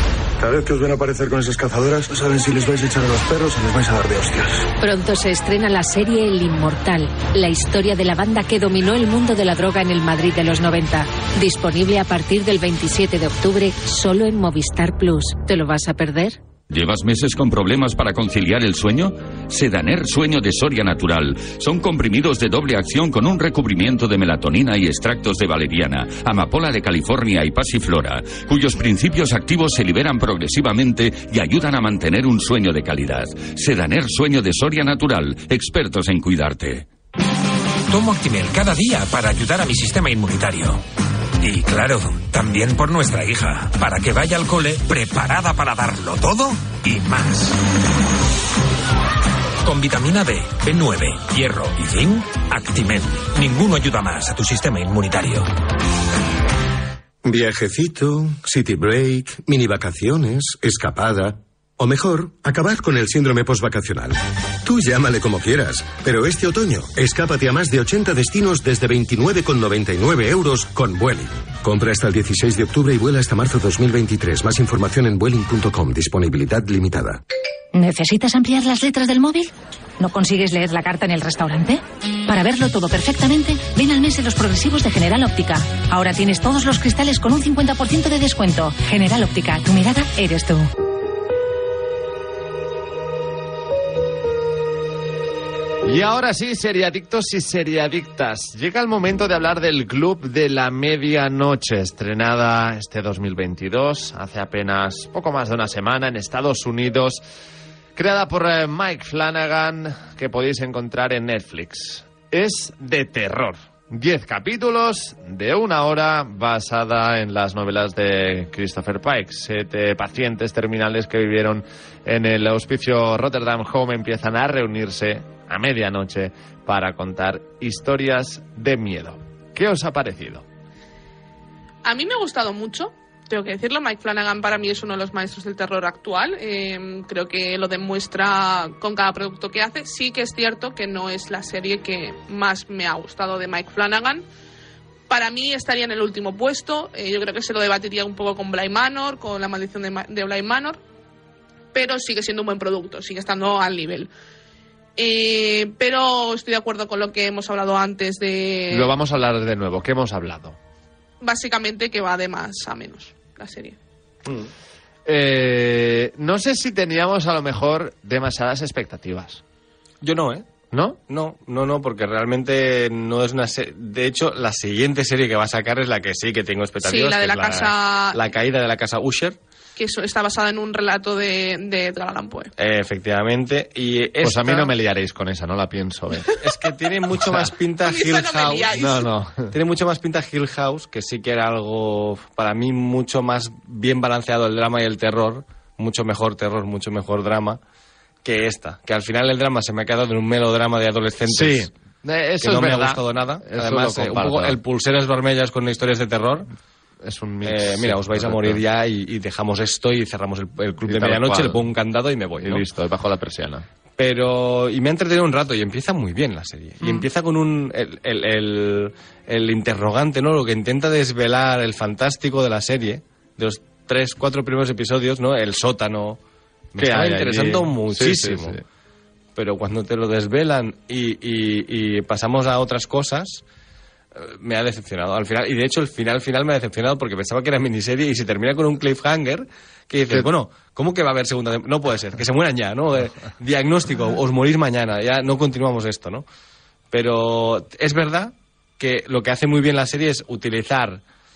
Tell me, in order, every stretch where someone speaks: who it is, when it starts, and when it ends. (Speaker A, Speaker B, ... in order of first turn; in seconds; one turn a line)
Speaker A: 0.4-4.7
Speaker B: 4.8-16.4
Speaker C: 16.7-36.9
Speaker D: 37.9-40.8
Speaker D: 41.4-47.6
Speaker D: 49.6-55.5
Speaker E: 57.2-77.2
Speaker F: 77.7-90.7
Speaker G: 95.8-107.2
Speaker G: 108.0-130.4
Speaker H: 131.8-144.2
Speaker H: 145.1-150.8
Speaker H: 151.7-154.1
Speaker H: 155.0-158.9
Speaker G: 158.7-160.6
Speaker H: 161.2-163.8
Speaker G: 165.1-169.4
Speaker I: 170.0-170.5
Speaker G: 170.7-171.0
Speaker I: 171.1-179.4
Speaker H: 176.8-178.2
Speaker H: 179.8-182.5
Speaker I: 182.6-184.7
Speaker G: 184.2-186.3
Speaker I: 186.4-188.8
Speaker H: 187.8-189.1
Speaker G: 188.7-189.5
Speaker I: 189.5-197.6
Speaker I: 198.2-201.7
Speaker G: 201.3-204.6
Speaker I: 202.4-206.5
Speaker G: 207.0-208.6
Speaker I: 207.4-212.7
Speaker G: 210.8-211.6
Speaker G: 212.4-213.7
Speaker I: 214.0-226.2
Speaker G: 216.8-217.1
Speaker I: 226.7-228.6
Speaker G: 226.8-228.6
Speaker I: 229.3-233.4
Speaker I: 234.2-246.3
Speaker I: 246.9-251.0